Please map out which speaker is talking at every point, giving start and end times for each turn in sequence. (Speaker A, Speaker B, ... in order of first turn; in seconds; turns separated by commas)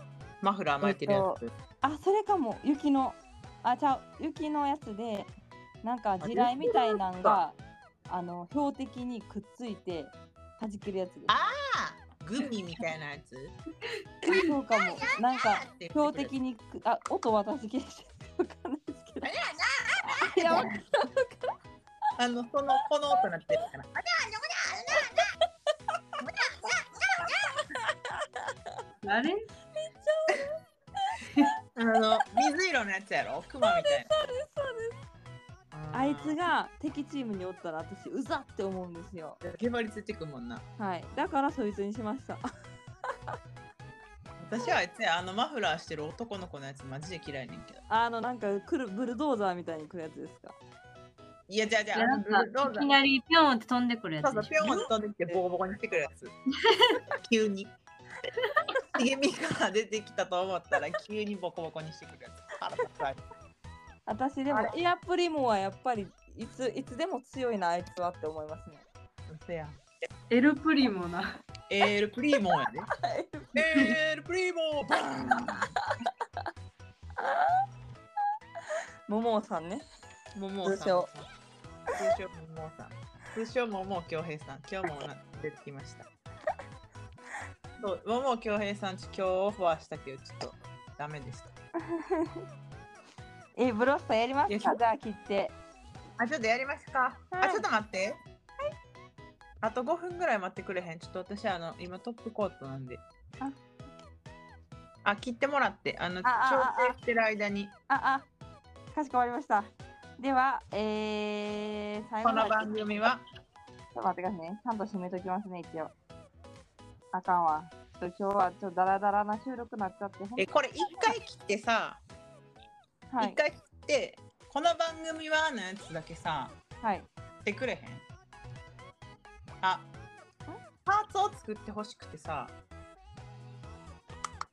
Speaker A: 0.4-1.5, Speaker B: 0.8-5.3, Speaker B: 5.8-11.3, Speaker A: 6.2-7.4, Speaker A: 11.3-13.6, Speaker B: 14.2-19.3, Speaker A: 14.5-16.3, Speaker A: 19.2-20.7, Speaker B: 20.0-21.5, Speaker A: 22.2-25.3, Speaker A: 26.2-27.3, Speaker B: 26.5-28.8, Speaker C: 29.0-29.5, Speaker B: 29.8-31.5, Speaker A: 31.8-34.1, Speaker B: 33.6-35.0, Speaker A: 35.7-36.4, Speaker B: 35.9-39.4, Speaker A: 39.4-40.6, Speaker B: 40.8-42.4, Speaker A: 44.4-47.8, Speaker B: 47.9-50.6, Speaker A: 51.5-52.9, Speaker C: 51.9-54.8, Speaker A: 54.2-56.4, Speaker C: 56.7-57.0, Speaker A: 57.2-57.8, Speaker A: 58.9-63.2, Speaker B: 64.1-68.9, Speaker A: 69.3-69.8, Speaker C: 70.3-71.3, Speaker A: 71.7-72.9, Speaker B: 73.0-73.6, Speaker A: 73.5-75.8, Speaker B: 75.8-76.1, Speaker B: 77.2-77.5, Speaker B: 79.1-79.8, Speaker A: 80.3-81.3, Speaker B: 80.6-81.1, Speaker A: 82.0-86.1, Speaker A: 87.8-91.5, Speaker B: 91.9-92.4, Speaker B: 93.6-95.6, Speaker A: 94.5-94.8, Speaker A: 96.2-98.2, Speaker B: 97.3-97.7, Speaker A: 99.6-103.0, Speaker A: 105.0-107.8, Speaker B: 106.2-107.0, Speaker B: 107.9-108.3, Speaker B: 108.9-113.0, Speaker A: 112.2-113.2, Speaker B: 113.9-115.9, Speaker B: 117.1-121.1, Speaker A: 120.4-122.0, Speaker B: 123.1-123.4, Speaker A: 123.2-126.6, Speaker B: 126.8-127.1, Speaker A: 127.5-128.1, Speaker A: 129.6-129.9, Speaker A: 130.8-132.6